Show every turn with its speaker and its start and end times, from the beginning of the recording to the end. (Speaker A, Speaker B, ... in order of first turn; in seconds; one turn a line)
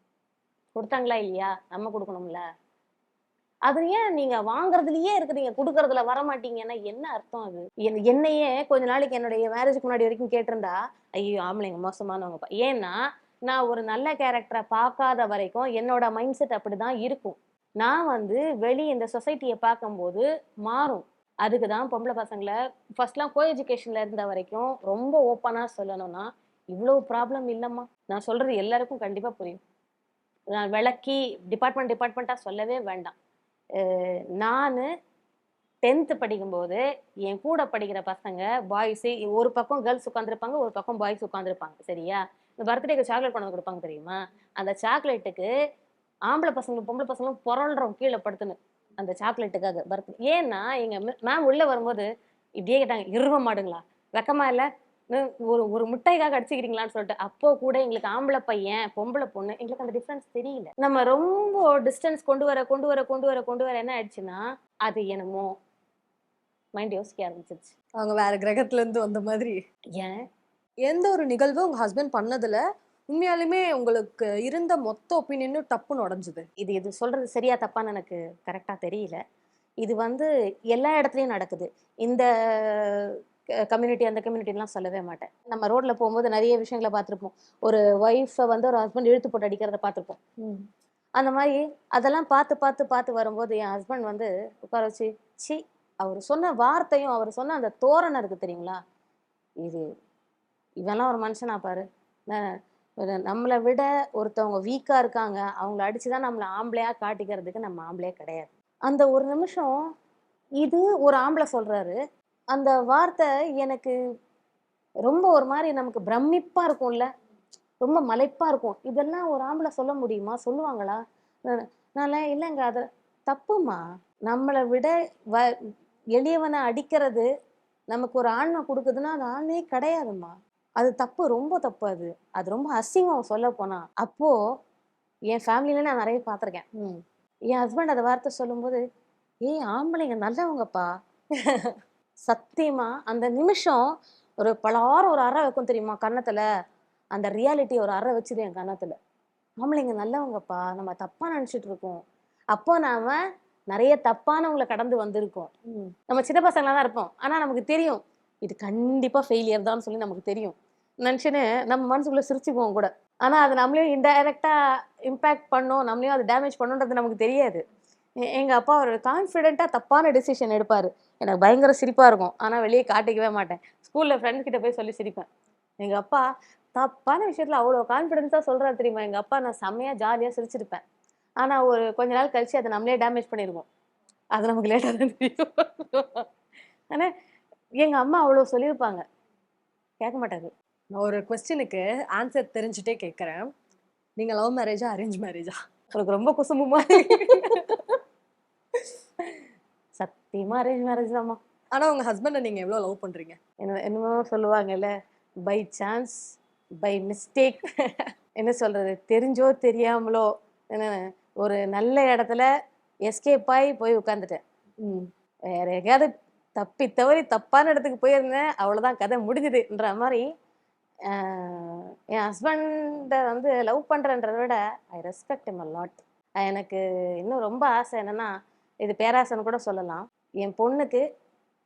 Speaker A: 0.8-2.4
Speaker A: 3.7-29.6
Speaker A: 30.6-33.1
Speaker A: 33.8-34.9
Speaker A: 35.9-45.5
Speaker A: 46.3-52.1
Speaker A: 52.6-65.5
Speaker A: 66.8-67.7
Speaker B: 68.0-69.6
Speaker B: 70.9-76.5
Speaker A: 76.6-79.2
Speaker A: 79.8-83.2
Speaker A: 83.7-90.6
Speaker A: 91.2-98.8
Speaker A: 100.8-102.4
Speaker A: 103.0-109.8
Speaker A: 110.6-112.0
Speaker A: 112.5-114.0
Speaker A: 115.1-117.1
Speaker A: 117.8-125.5
Speaker A: 126.2-127.3
Speaker A: 127.9-134.3
Speaker A: 135.3-137.0
Speaker A: 137.5-138.8
Speaker A: 139.5-140.9
Speaker A: 142.3-143.8
Speaker A: 144.4-146.4
Speaker A: 147.2-148.9
Speaker A: 149.6-152.0
Speaker A: 152.5-153.2
Speaker A: 153.7-164.5
Speaker A: 165.1-167.6
Speaker A: 168.3-175.3
Speaker A: 175.8-176.2
Speaker A: 176.8-180.8
Speaker A: 181.4-183.7
Speaker A: 184.4-186.2
Speaker A: 187.8-189.0
Speaker A: 190.0-190.5
Speaker B: 190.9-193.5
Speaker B: 194.2-195.6
Speaker A: 195.9-197.8
Speaker B: 197.1-197.6
Speaker A: 200.0-201.4
Speaker B: 201.7-203.4
Speaker A: 203.6-204.9
Speaker A: 205.5-206.2
Speaker A: 206.8-212.5
Speaker A: 213.1-214.4
Speaker A: 215.5-220.2
Speaker A: 221.1-228.3
Speaker A: 228.8-231.0